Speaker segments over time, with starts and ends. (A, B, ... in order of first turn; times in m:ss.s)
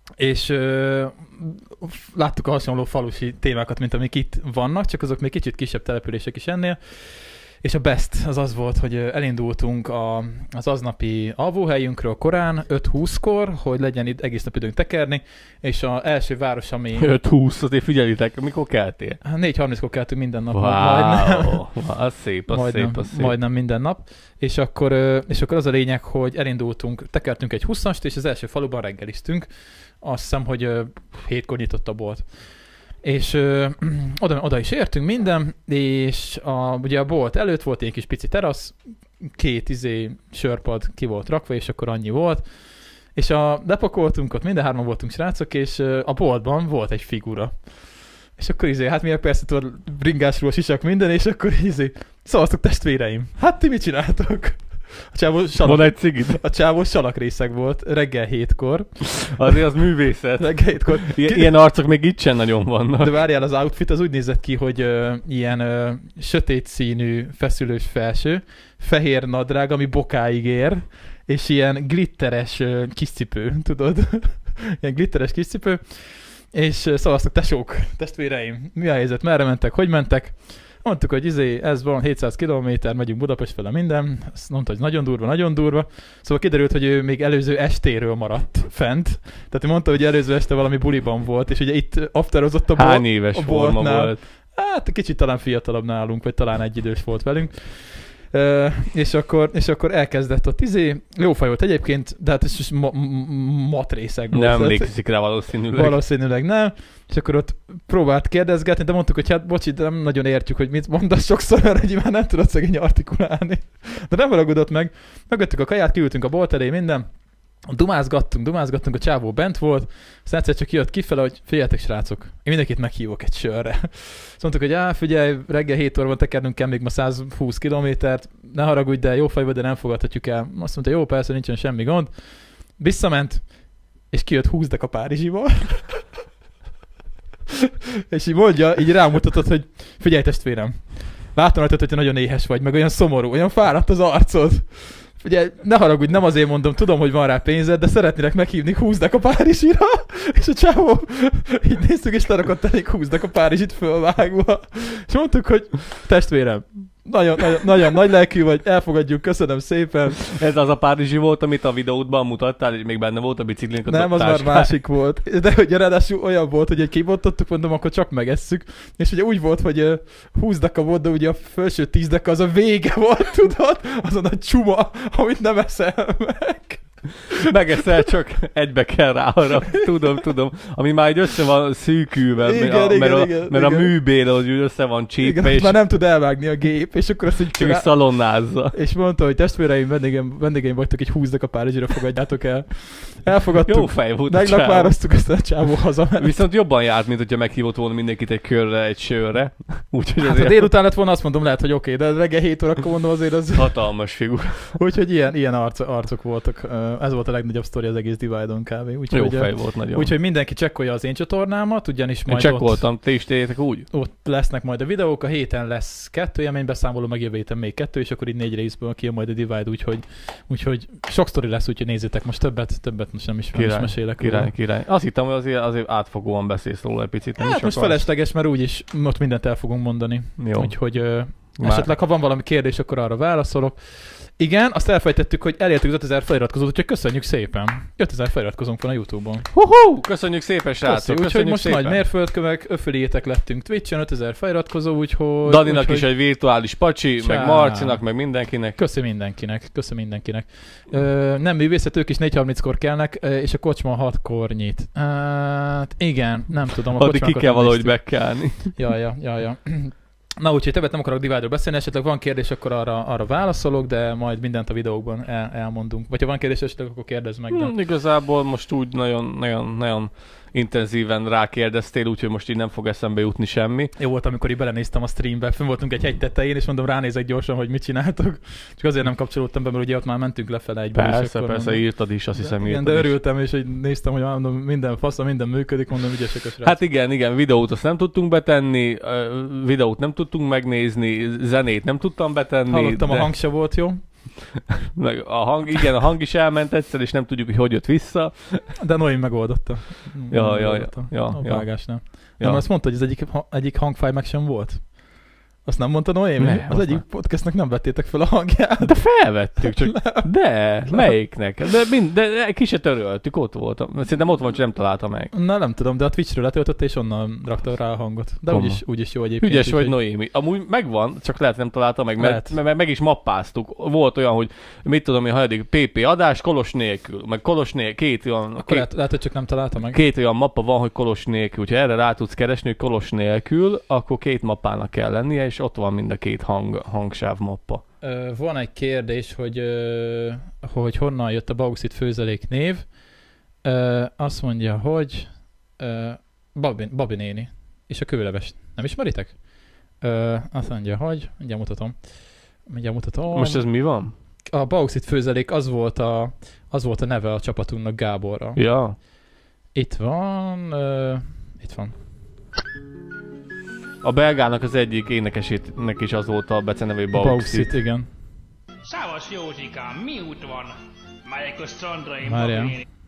0:00.2-0:17.1 A
0:17.0-0:19.2 B
0:19.2-0:21.8 A
0:20.5-0:23.4 B
0:22.5-0:59.6 A
0:55.6-0:56.4 B
0:59.3-1:03.1 B
1:00.4-1:01.5 A
1:03.0-2:16.1 A
1:32.8-1:34.2 B
1:44.3-1:46.0 B
2:18.1-2:40.3 A
2:40.3-2:44.8 B
2:43.9-2:57.5 A
2:57.4-3:05.8 B
3:02.4-3:04.0 A
3:05.2-3:16.4 A
3:07.5-3:08.7 B
3:13.6-3:15.0 B
3:16.2-3:20.7 B
3:20.2-3:24.0 A
3:23.5-3:24.8 B
3:24.8-3:33.2 A
3:29.1-3:30.1 B
3:32.3-3:33.9 B
3:33.9-3:44.5 A
3:43.5-3:48.0 B
3:47.4-3:59.5 A
3:50.4-3:51.9 B
3:59.5-4:02.0 B
4:00.8-4:06.5 A
4:05.4-4:08.8 B
4:07.2-4:27.7 A
4:17.0-4:18.7 B
4:27.5-4:33.9 B
4:34.0-4:46.8 A
4:40.9-4:43.2 B
4:46.6-4:53.3 B
4:52.7-4:54.3 A
4:54.9-4:58.8 B
4:58.8-5:11.1 A
5:00.3-5:02.6 B
5:06.4-5:07.0 B
5:08.8-5:15.3 B
5:15.3-5:20.0 A
5:18.5-5:28.9 B
5:22.2-5:22.6 A
5:28.6-5:30.0 A
5:29.9-5:37.8 B
5:38.0-5:53.8 A
5:53.3-5:54.1 B
5:54.5-5:59.1 A
5:58.6-5:59.0 B
5:59.7-6:02.0 A
6:04.0-6:07.7 B
6:07.1-6:08.1 A
6:08.8-6:12.8 C
6:12.2-6:12.8 A